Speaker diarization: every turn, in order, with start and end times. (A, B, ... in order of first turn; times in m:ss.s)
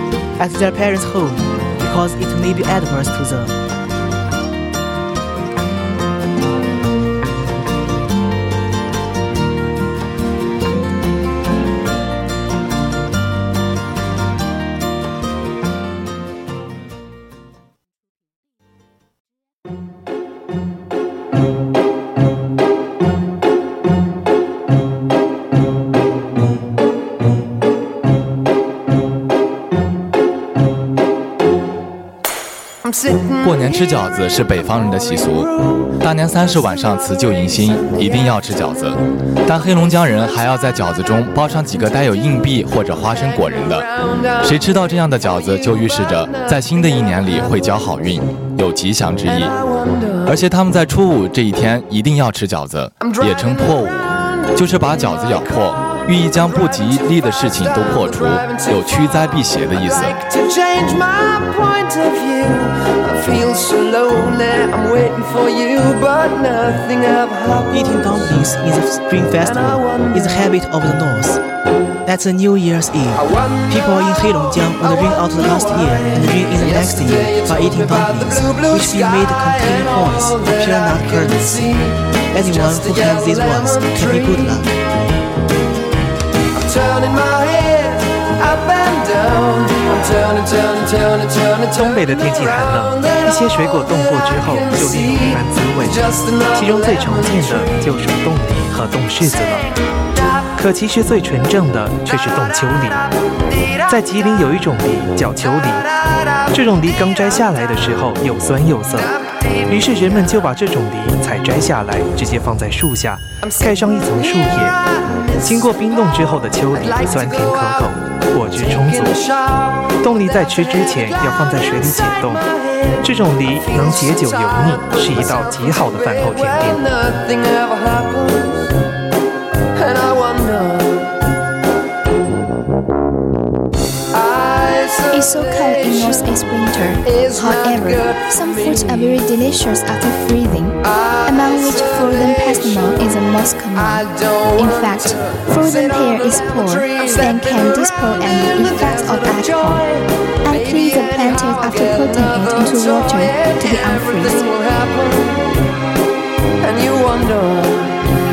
0:00.4-0:03.5 A
0:33.3-0:49.6 B
0:50.2-1:00.2 B
1:00.9-1:01.5 C
1:03.3-1:03.6 C
1:04.2-1:06.9 C
1:07.7-1:11.4 A
1:12.0-1:24.7 A
1:27.1-1:27.9 C
1:28.6-1:31.4 C
1:31.6-1:39.7 D
1:40.6-1:43.1 D
1:43.8-1:45.9 D
1:46.5-1:49.1 D
1:49.7-1:54.8 D
1:55.4-1:59.3 D
1:59.9-2:02.5 D
2:03.0-2:06.9 D
2:15.1-2:29.9 E
2:30.4-2:34.7 E
2:37.0-2:37.3 C